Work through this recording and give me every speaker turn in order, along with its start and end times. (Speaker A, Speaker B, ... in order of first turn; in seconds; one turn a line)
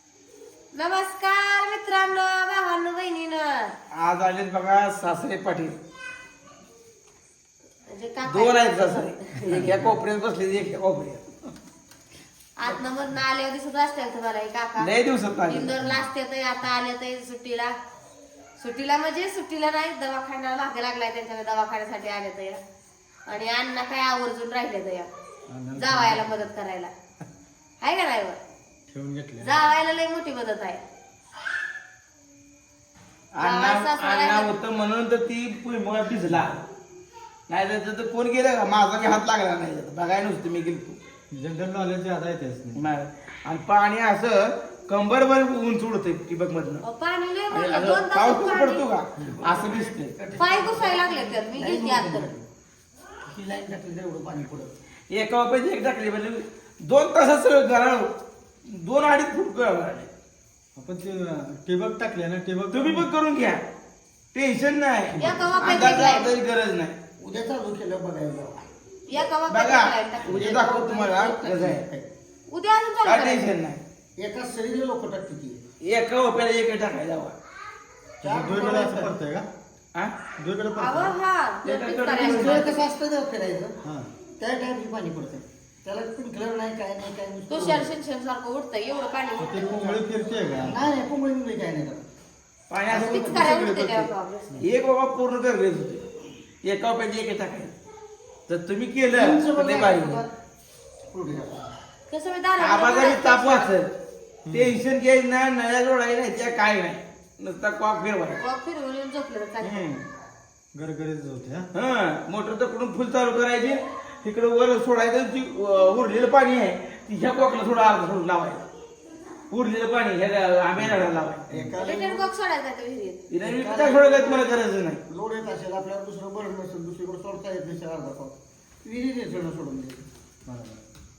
Speaker A: 0.7-3.7
Speaker B: 3.9-5.8
Speaker A: 7.9-9.7
Speaker B: 8.3-11.3
Speaker C: 9.5-10.0
Speaker A: 12.6-14.9
Speaker B: 14.8-15.8
Speaker A: 15.5-17.7
Speaker A: 18.6-22.6
Speaker A: 23.3-25.1
Speaker C: 25.5-26.4
Speaker A: 25.8-26.9
Speaker A: 27.8-28.4
Speaker C: 28.9-29.5
Speaker A: 29.4-30.8
Speaker B: 33.3-36.6
Speaker A: 33.4-34.5
Speaker B: 37.5-41.0
Speaker C: 41.3-42.8
Speaker B: 42.7-46.8
Speaker A: 46.8-48.8
Speaker B: 47.5-50.1
Speaker D: 49.3-52.5
Speaker A: 50.3-52.3
Speaker D: 53.2-54.7
Speaker B: 55.1-58.1
Speaker B: 58.7-60.1
Speaker C: 60.8-63.1
Speaker B: 62.7-63.6
Speaker B: 64.3-67.0
Speaker A: 65.2-66.3
Speaker D: 65.3-66.1
Speaker D: 67.2-68.7
Speaker A: 69.1-70.4
Speaker B: 69.5-71.8
Speaker D: 70.2-72.1
Speaker A: 72.5-73.5
Speaker B: 73.0-73.8
Speaker D: 74.2-75.6
Speaker B: 75.8-77.3
Speaker D: 78.2-79.1
Speaker C: 78.2-79.5
Speaker C: 80.4-81.1
Speaker A: 80.8-82.8
Speaker B: 81.6-82.7
Speaker D: 82.2-83.8
Speaker C: 83.8-84.1
Speaker D: 84.4-87.9
Speaker A: 87.5-90.0
Speaker C: 89.4-90.9
Speaker D: 90.6-92.0
Speaker B: 92.7-94.1
Speaker D: 92.9-93.5
Speaker A: 92.9-94.6
Speaker B: 94.6-96.1
Speaker B: 96.6-97.7
Speaker B: 98.5-100.2
Speaker D: 99.1-100.3
Speaker D: 101.1-101.7
Speaker A: 102.1-103.7
Speaker B: 102.6-103.9
Speaker C: 104.5-104.8
Speaker B: 104.5-108.4
Speaker A: 108.4-109.8
Speaker B: 109.6-110.0
Speaker C: 110.7-111.7
Speaker B: 111.7-118.7
Speaker B: 119.5-121.5
Speaker C: 120.8-121.8
Speaker D: 121.5-122.2
Speaker A: 121.8-123.3
Speaker B: 123.3-125.0
Speaker D: 123.4-130.0
Speaker C: 130.4-130.9